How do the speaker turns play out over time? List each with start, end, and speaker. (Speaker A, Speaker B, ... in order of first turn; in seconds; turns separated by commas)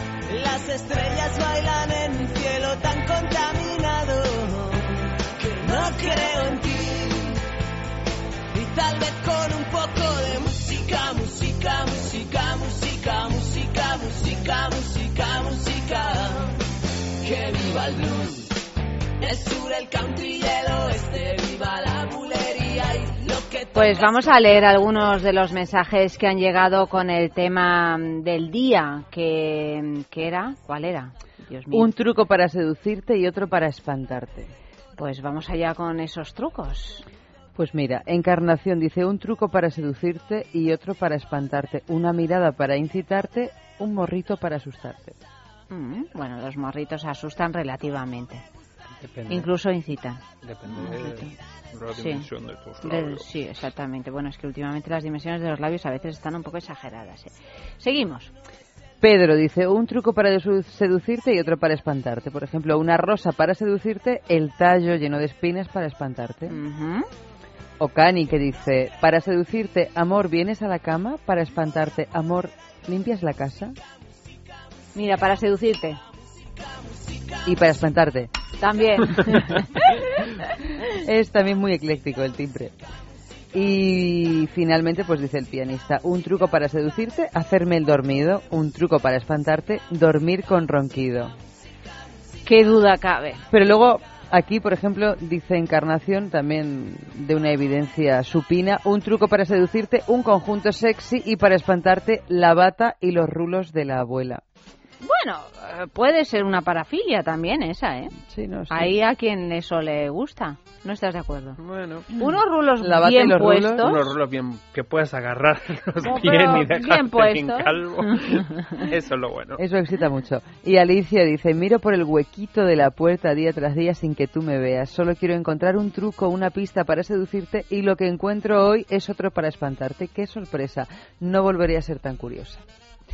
Speaker A: 0.3-7.4, Speaker A: 8.5-16.6, Speaker A: 17.2-18.6, Speaker A: 19.2-24.3, Speaker B: 23.7-31.9, Speaker C: 31.7-34.5, Speaker B: 35.0-37.1, Speaker C: 37.6-45.2, Speaker B: 45.7-48.4, Speaker D: 49.0-49.5, Speaker B: 49.3-51.3, Speaker D: 50.4-53.3, Speaker B: 52.0-52.3, Speaker B: 52.8-58.3, Speaker C: 59.0-66.6, Speaker B: 66.5-67.1, Speaker C: 67.8-73.8, Speaker B: 75.0-76.0, Speaker C: 77.5-78.3, Speaker B: 78.6-80.2, Speaker C: 80.9-82.8, Speaker C: 83.5-91.3, Speaker B: 92.5-93.4, Speaker C: 93.5-104.4, Speaker B: 105.0-108.1, Speaker C: 108.2-108.9, Speaker B: 108.7-111.6, Speaker D: 111.6-112.1, Speaker C: 112.2-113.9, Speaker B: 112.2-114.0, Speaker D: 113.8-119.6, Speaker B: 116.0-118.3, Speaker C: 119.6-132.6